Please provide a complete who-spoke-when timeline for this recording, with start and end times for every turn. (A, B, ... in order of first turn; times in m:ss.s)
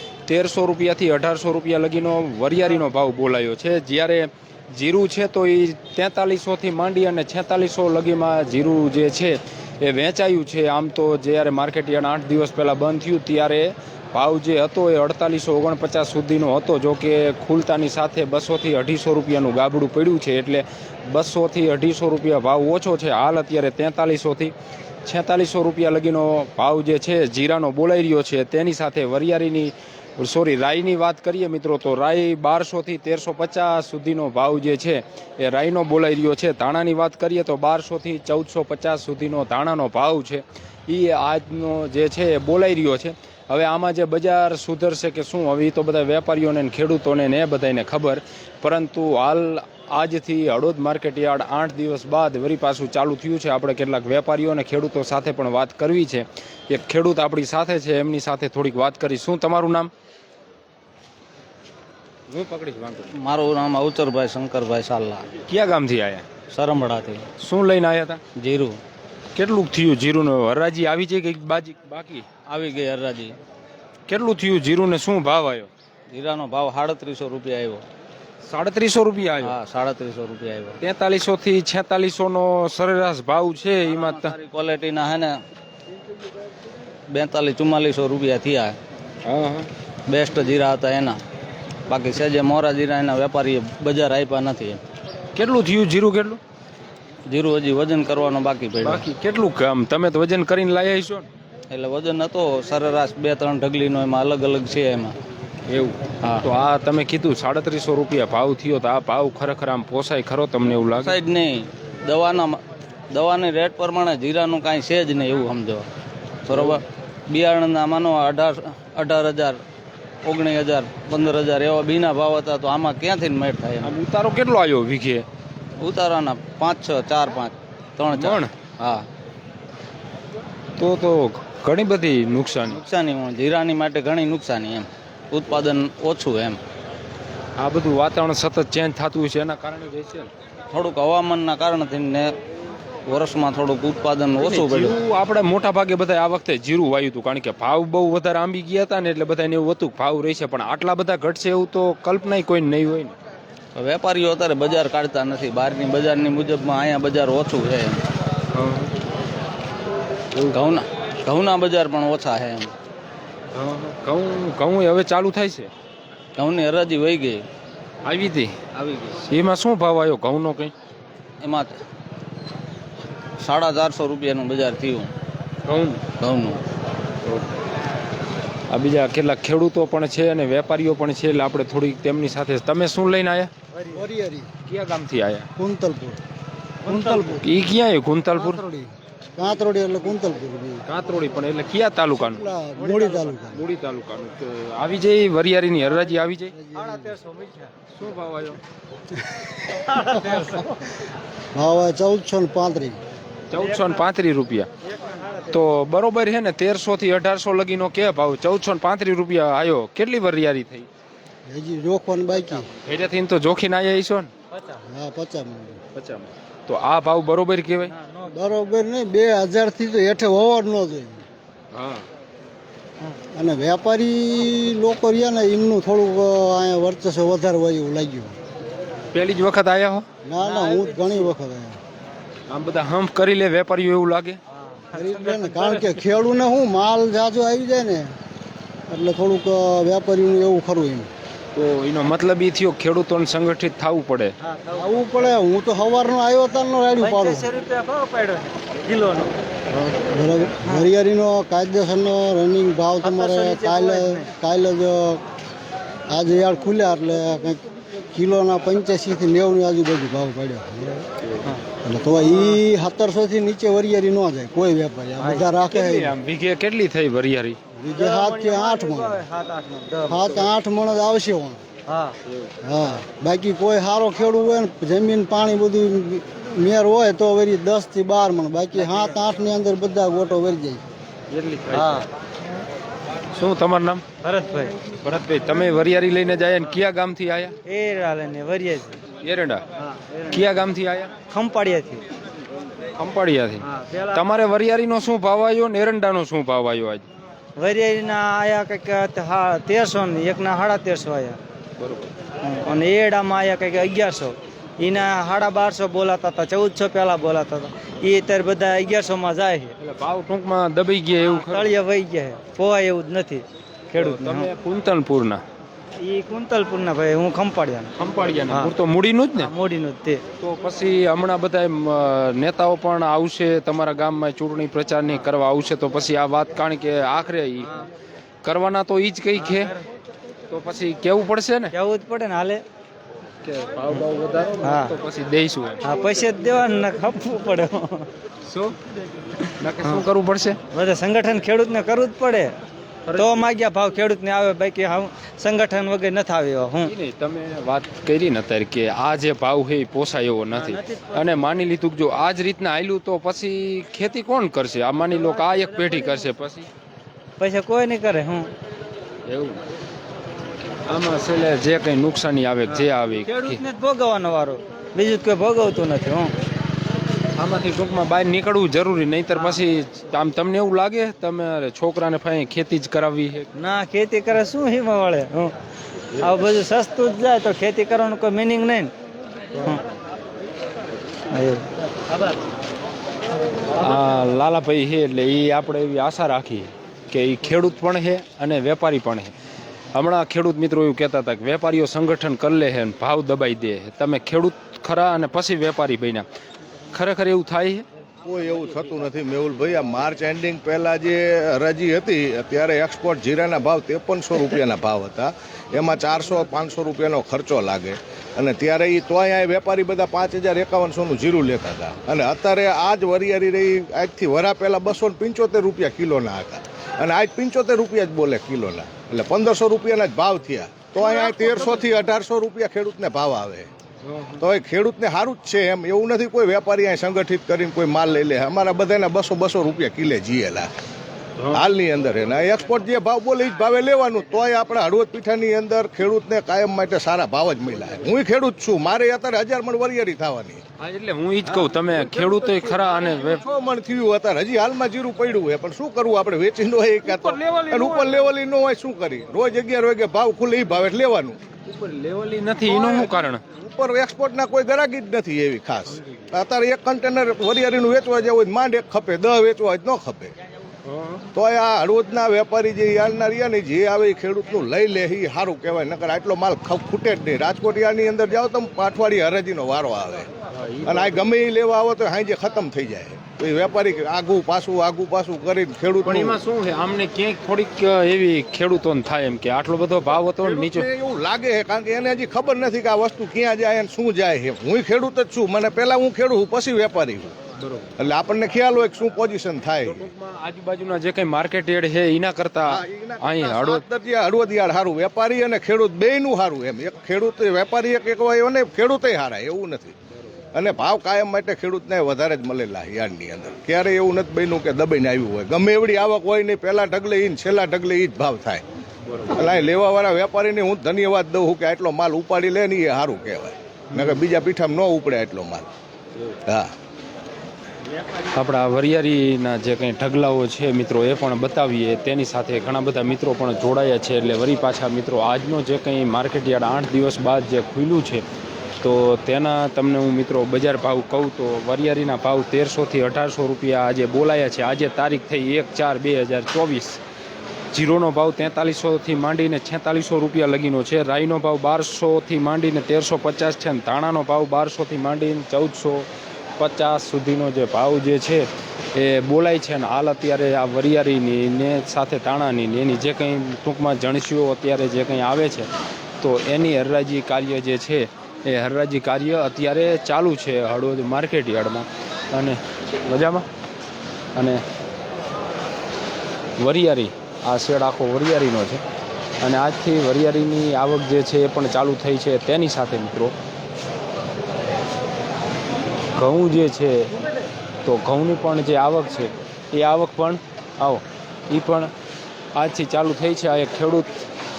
0:00.3-0:24.5 A
0:25.0-0:59.9 A
1:02.3-1:03.1 A
1:03.2-1:05.3 B
1:05.5-1:06.3 A
1:06.5-1:07.2 B
1:07.4-1:08.2 A
1:08.4-1:08.8 B
1:09.4-1:12.3 A
1:12.5-1:13.4 B
1:14.1-1:15.7 A
1:16.1-1:17.8 B
1:18.4-1:19.6 A
1:19.4-1:20.8 B
1:20.8-1:24.3 A
1:23.9-1:25.4 B
1:27.1-1:28.8 B
1:29.2-1:29.7 A
1:30.1-1:31.2 B
1:31.9-1:34.8 B
1:35.3-1:36.4 A
1:37.3-1:39.0 B
1:38.8-1:41.3 A
1:41.7-1:45.2 B
1:45.7-1:51.2 A
1:46.2-1:46.5 B
1:50.9-1:55.9 B
1:56.5-1:59.6 B
2:00.2-2:04.0 B
2:03.8-2:05.2 A
2:05.8-2:09.1 B
2:08.1-2:08.5 A
2:10.8-2:12.8 A
2:12.7-2:16.6 B
2:17.6-2:20.3 A
2:20.7-2:22.3 B
2:23.1-2:25.0 B
2:24.4-2:33.2 A
2:33.8-2:38.0 B
2:38.5-2:38.9 A
2:40.5-2:42.7 B
2:43.5-2:45.7 A
2:46.4-2:47.5 B
2:48.0-2:48.6 A
2:48.8-2:49.2 B
2:49.2-2:50.7 A
2:51.4-2:51.8 B
2:53.4-2:55.1 B
2:55.6-2:56.0 A
2:56.2-2:56.6 B
2:57.2-2:57.5 A
2:58.7-3:03.5 A
3:03.9-3:04.5 C
3:04.6-3:05.5 A
3:05.6-3:06.2 C
3:06.8-3:07.5 C
3:06.8-3:08.6 A
3:08.4-3:10.8 C
3:10.9-3:12.5 A
3:12.1-3:13.6 C
3:13.0-3:13.3 D
3:13.5-3:16.5 A
3:16.5-3:17.2 C
3:16.8-3:17.7 D
3:18.0-3:18.6 A
3:19.2-3:19.8 C
3:19.8-3:20.8 D
3:21.5-3:23.0 C
3:23.5-3:24.7 A
3:24.8-3:25.6 D
3:25.5-3:30.9 A
3:31.5-3:32.7 C
3:32.8-3:34.3 A
3:34.5-3:34.8 D
3:34.9-3:35.8 C
3:36.0-3:37.9 A
3:37.9-3:38.3 D
3:38.3-3:41.2 C
3:41.7-3:42.1 A
3:43.3-3:48.4 C
3:49.1-3:50.0 A
3:50.2-3:51.8 C
3:50.4-3:51.3 D
3:52.5-3:54.4 A
3:54.6-3:55.5 D
3:54.9-3:58.2 C
3:58.9-4:01.1 C
4:01.6-4:04.4 A
4:04.4-4:04.9 D
4:04.8-4:07.4 C
4:07.0-4:09.4 D
4:09.9-4:15.2 C
4:13.0-4:14.2 D
4:16.1-4:21.1 C
4:21.8-4:26.2 C
4:25.2-4:27.6 A
4:27.8-4:29.2 C
4:27.9-4:30.4 D
4:30.1-4:31.6 C
4:31.9-4:32.2 D
4:32.6-4:40.8 C
4:41.3-4:42.0 A
4:41.7-4:42.1 D
4:43.3-4:44.0 A
4:44.2-4:44.8 D
4:45.0-4:47.6 A
4:47.6-4:49.0 D
4:49.2-4:49.6 A
4:49.8-4:50.4 D
4:50.3-4:51.1 A
4:51.3-4:52.0 D
4:53.0-4:57.1 A
4:53.7-4:54.2 D
4:57.6-5:01.4 D
5:01.8-5:02.1 A
5:02.4-5:09.8 D
5:09.8-5:11.7 A
5:11.2-5:14.5 D
5:14.0-5:15.4 A
5:16.0-5:17.9 D
5:18.0-5:19.5 A
5:19.4-5:20.2 D
5:20.4-5:27.8 A
5:28.4-5:29.7 A
5:29.4-5:29.8 D
5:30.5-5:31.7 A
5:31.7-5:32.6 D
5:33.4-5:35.8 A
5:34.6-5:34.9 D
5:35.8-5:38.1 D
5:38.5-5:38.8 A
5:39.6-5:40.6 A
5:40.7-5:42.6 D
5:43.1-5:43.4 A
5:43.2-5:46.9 D
5:46.8-5:56.7 A
5:50.5-5:51.3 D
5:57.4-5:58.5 D
5:59.3-5:59.6 A
6:00.9-6:03.6 A
6:02.7-6:06.3 D
6:07.4-6:13.5 A
6:13.6-6:15.5 D
6:16.2-6:18.9 D
6:19.5-6:19.8 D
6:21.3-6:21.7 D
6:23.8-6:29.3 A
6:29.9-6:36.3 A
6:36.9-6:37.9 A
6:38.2-7:03.7 E
7:04.0-7:04.4 A
7:04.4-7:10.7 E
7:11.4-7:11.6 A
7:11.5-7:20.6 E
7:20.8-7:23.4 A
7:21.5-7:31.4 E
7:27.2-7:28.0 A
7:31.7-7:33.4 A
7:32.6-7:40.3 E
7:35.9-7:36.3 A
7:40.8-7:41.2 A
7:41.3-7:50.3 E
7:50.5-7:51.2 A
7:50.8-7:56.4 E
7:56.0-8:00.9 A
8:00.4-8:07.4 E
8:07.6-8:07.9 A
8:08.0-8:10.1 E
8:09.8-8:13.8 A
8:12.7-8:20.0 E
8:20.5-8:28.6 E
8:29.1-8:29.4 A
8:29.3-8:35.7 E
8:36.5-8:36.7 E
8:38.3-8:48.2 A
8:48.8-8:57.0 A
8:57.7-9:15.7 A
9:16.2-9:23.5 A
9:24.4-9:24.6 A
9:26.6-9:28.8 A
9:29.4-9:33.4 A
9:36.1-9:37.1 A
9:37.8-9:41.9 A
9:42.6-9:44.2 A